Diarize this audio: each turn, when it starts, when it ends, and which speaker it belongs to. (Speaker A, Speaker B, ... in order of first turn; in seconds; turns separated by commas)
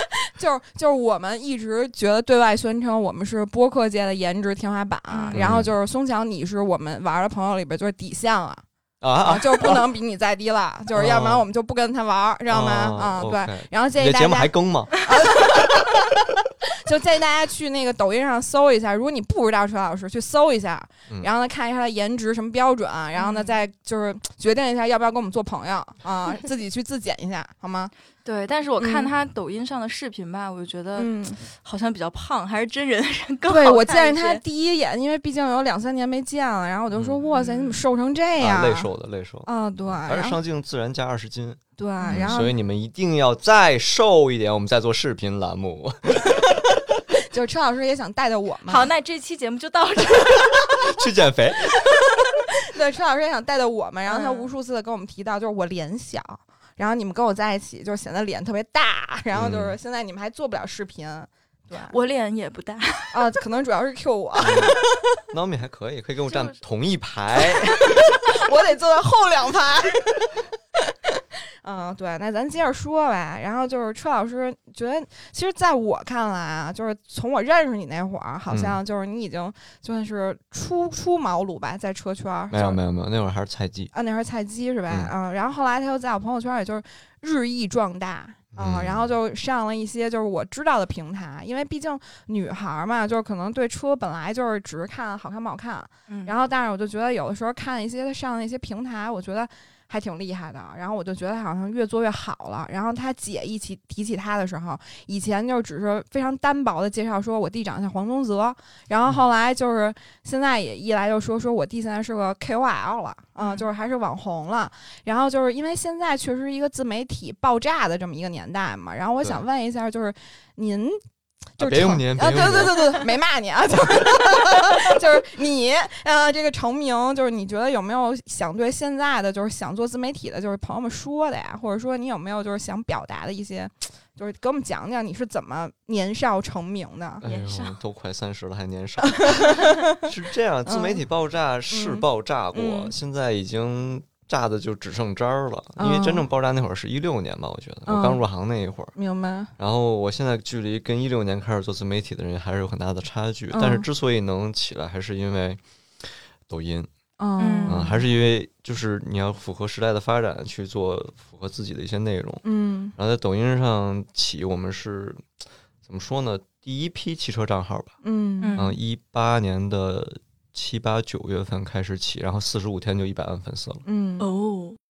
Speaker A: 0.3-8.6, Speaker B: 5.1-5.5, Speaker C: 5.3-5.7, Speaker C: 9.0-9.9, Speaker A: 9.2-15.8, Speaker C: 10.9-11.4, Speaker C: 12.5-15.7, Speaker A: 16.8-27.9, Speaker B: 23.2-23.6, Speaker B: 28.2-34.4, Speaker A: 28.8-29.1, Speaker A: 30.9-31.4, Speaker A: 33.5-38.9, Speaker C: 36.9-37.2, Speaker B: 37.3-37.8, Speaker C: 38.4-39.5, Speaker A: 39.5-40.4, Speaker C: 40.0-46.8, Speaker A: 41.8-42.5, Speaker B: 42.0-42.4, Speaker A: 47.3-48.9, Speaker B: 48.7-50.9, Speaker C: 50.7-52.0, Speaker A: 52.7-61.9, Speaker B: 54.1-54.5, Speaker C: 59.3-59.8, Speaker B: 61.8-63.2, Speaker A: 63.1-65.0, Speaker C: 64.4-64.8, Speaker C: 65.3-67.9, Speaker B: 66.3-66.6, Speaker A: 68.3-70.3, Speaker A: 71.6-82.8, Speaker C: 78.5-78.8, Speaker C: 82.5-83.9, Speaker A: 83.9-121.0, Speaker C: 88.5-89.1, Speaker B: 96.1-96.3, Speaker B: 113.4-113.7, Speaker A: 121.6-137.2, Speaker C: 121.6-122.9, Speaker B: 137.2-137.8, Speaker C: 137.2-148.9, Speaker A: 139.2-139.8, Speaker A: 140.7-141.0, Speaker A: 141.7-142.9, Speaker A: 145.8-146.2, Speaker A: 147.8-148.2, Speaker A: 148.9-149.5, Speaker C: 149.6-156.9, Speaker A: 153.5-153.8, Speaker A: 157.2-158.0, Speaker B: 157.4-157.8, Speaker C: 157.7-162.4, Speaker A: 162.4-162.9, Speaker C: 162.9-165.3, Speaker C: 165.8-167.9, Speaker A: 168.0-168.6, Speaker B: 168.4-168.8, Speaker C: 168.6-173.8, Speaker A: 173.8-174.3, Speaker B: 174.2-174.8